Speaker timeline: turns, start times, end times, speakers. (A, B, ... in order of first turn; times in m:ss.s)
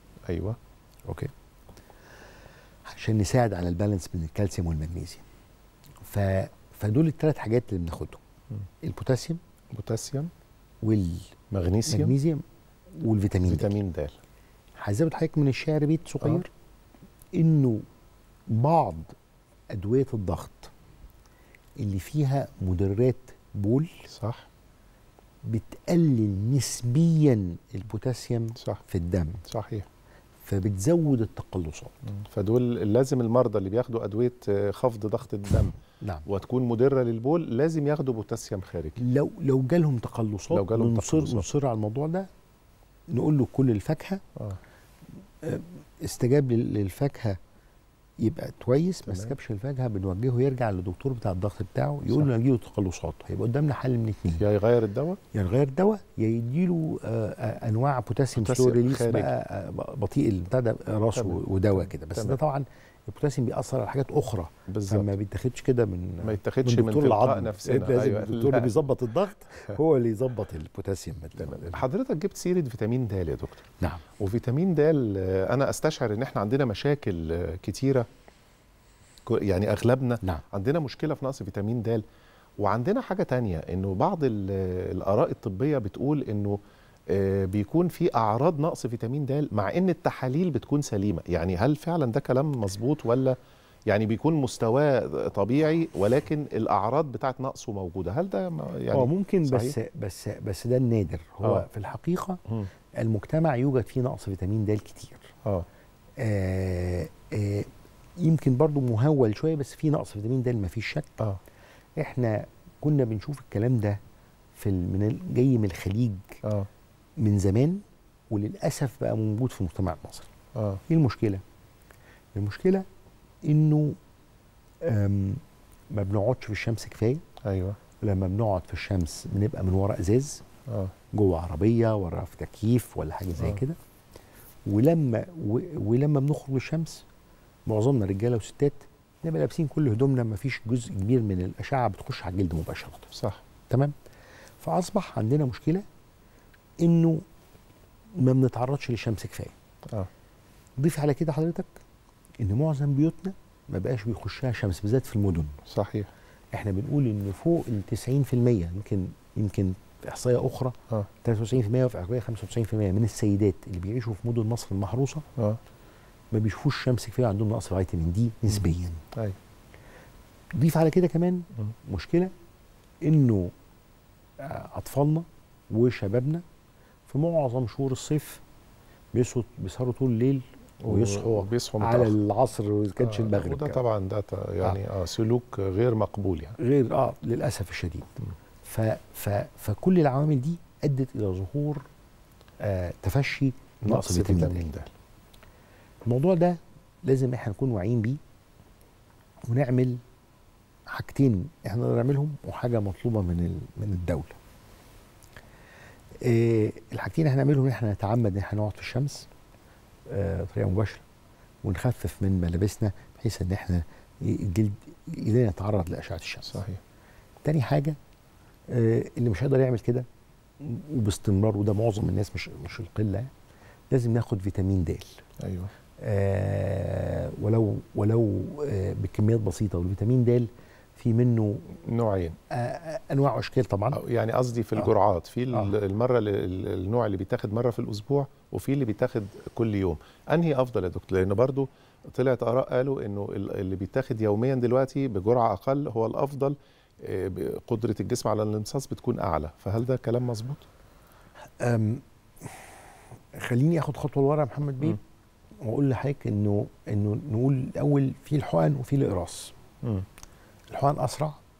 0:00.3-0:00.6 A
0:02.8-0:05.2 B
0:06.0-0:08.2 B
0:08.8-0:09.4 B
0:09.7-0:10.3 A
0:10.8-0:11.3 B
0:11.5-0:12.1 A
0:11.9-0:13.8 B
0:13.4-0:14.2 A
0:14.8-0:16.5 B
0:17.3-0:17.8 B
0:18.5-0:19.2 B
0:19.7-0:20.7 B
0:21.8-0:24.1 B
0:24.1-0:24.5 A
0:25.4-0:29.4 B
0:29.5-0:29.9 A
0:30.4-0:31.9 B
0:32.0-0:39.0 A
0:36.0-0:36.2 B
0:39.0-0:42.3 B
0:40.5-0:41.5 A
0:43.1-0:44.2 B
0:45.4-0:47.4 B
0:48.2-0:54.4 B
0:49.0-0:49.3 A
0:54.4-0:55.2 A
0:55.3-1:11.8 B
0:58.4-0:59.3 A
1:01.1-1:02.4 A
1:04.7-1:05.1 A
1:06.2-1:08.8 A
1:11.4-1:13.6 A
1:14.2-1:18.1 A
1:19.2-1:22.0 A
1:22.6-1:39.8 A
1:38.9-1:42.4 B
1:42.9-1:45.3 B
1:46.2-1:51.1 B
1:52.0-1:54.0 B
1:54.5-1:56.4 B
1:56.4-1:56.7 A
1:57.2-2:00.3 B
2:00.5-2:00.8 A
2:00.9-2:01.4 B
2:02.3-2:02.8 B
2:03.4-2:04.0 B
2:04.8-2:07.2 B
2:07.4-2:07.8 A
2:08.0-2:10.4 B
2:10.7-2:10.9 A
2:11.1-2:13.8 B
2:14.6-2:17.0 B
2:17.7-2:23.1 B
2:23.1-2:23.4 A
2:23.7-2:23.9 B
2:24.6-2:25.8 B
2:26.8-2:27.2 B
2:28.2-2:29.5 B
2:30.8-2:31.7 B
2:32.4-2:35.6 B
2:35.7-2:36.1 A
2:36.5-2:45.3 B
2:46.3-2:49.0 B
2:50.5-2:52.3 B
2:53.0-2:53.5 B
2:54.4-2:56.4 B
2:57.1-2:58.4 B
2:59.1-3:03.8 B
3:00.8-3:02.1 A
3:03.0-3:06.6 A
3:06.6-3:11.8 B
3:12.6-3:14.6 B
3:13.8-3:14.9 A
3:16.0-3:18.2 B
3:19.5-3:20.0 B
3:20.9-3:24.4 B
3:26.2-3:29.3 B
3:30.1-3:31.0 B
3:31.6-3:36.6 B
3:36.5-3:36.8 A
3:37.4-3:38.0 B
3:38.7-3:40.0 B
3:40.6-3:43.3 B
3:43.9-3:45.2 B
3:45.4-3:45.7 A
3:46.0-3:51.8 B
3:51.8-3:52.4 A
3:52.5-3:54.0 B
3:53.9-4:10.6 A
4:11.6-4:12.7 B
4:13.3-4:15.0 B
4:15.6-4:19.5 B
4:20.7-4:21.4 B